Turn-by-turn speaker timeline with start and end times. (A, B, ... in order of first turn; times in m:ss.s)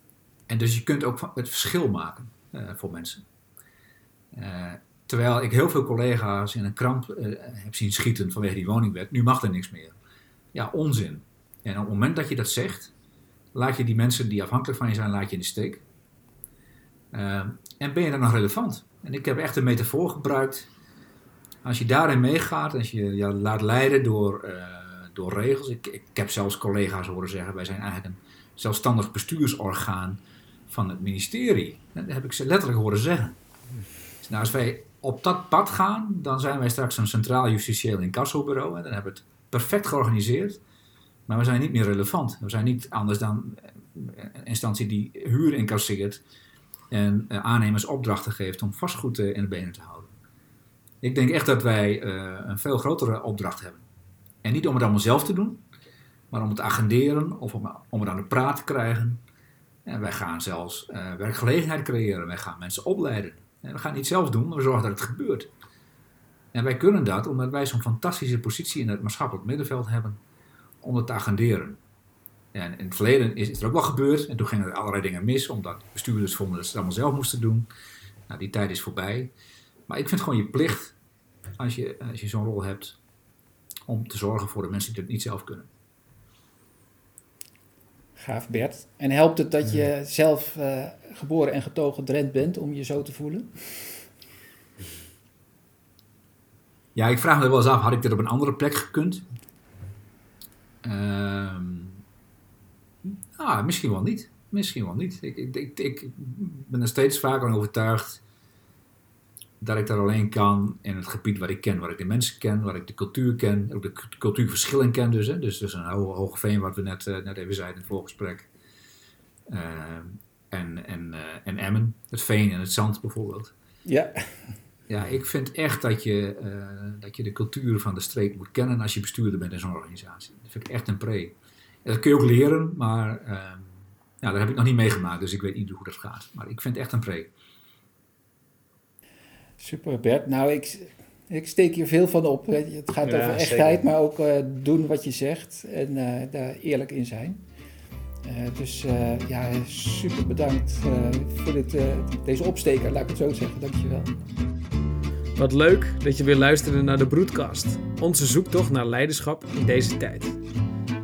0:00.5-0:03.2 A
0:04.3-0:10.0 A
0:10.5-0:12.9 A
0:13.5-0:15.8 A
0:17.1-0:20.7 A
0:21.6-0:33.4 A
0:34.2-0:40.6 A
0:41.3-0:46.2 A
0:46.9-0:50.1 A
0:51.0-0:53.8 A
0:54.4-0:55.6 A
0:56.3-0:59.2 A
0:59.8-1:05.5 A
1:06.5-1:10.2 A
1:10.8-1:11.8 A
1:12.5-1:17.7 A
1:18.3-1:19.3 A
1:19.9-1:21.0 A
1:21.6-1:23.0 A
1:23.9-1:25.7 A
1:28.2-1:34.0 B
1:37.0-1:39.3 A
1:40.8-1:42.0 A
1:43.0-1:48.2 A
1:49.6-1:58.5 A
1:59.5-2:03.5 A
2:03.9-2:04.3 B
2:04.9-2:17.3 A
2:19.6-2:27.4 B
2:23.0-2:23.8 C
2:28.2-2:34.2 B
2:35.4-2:40.4 C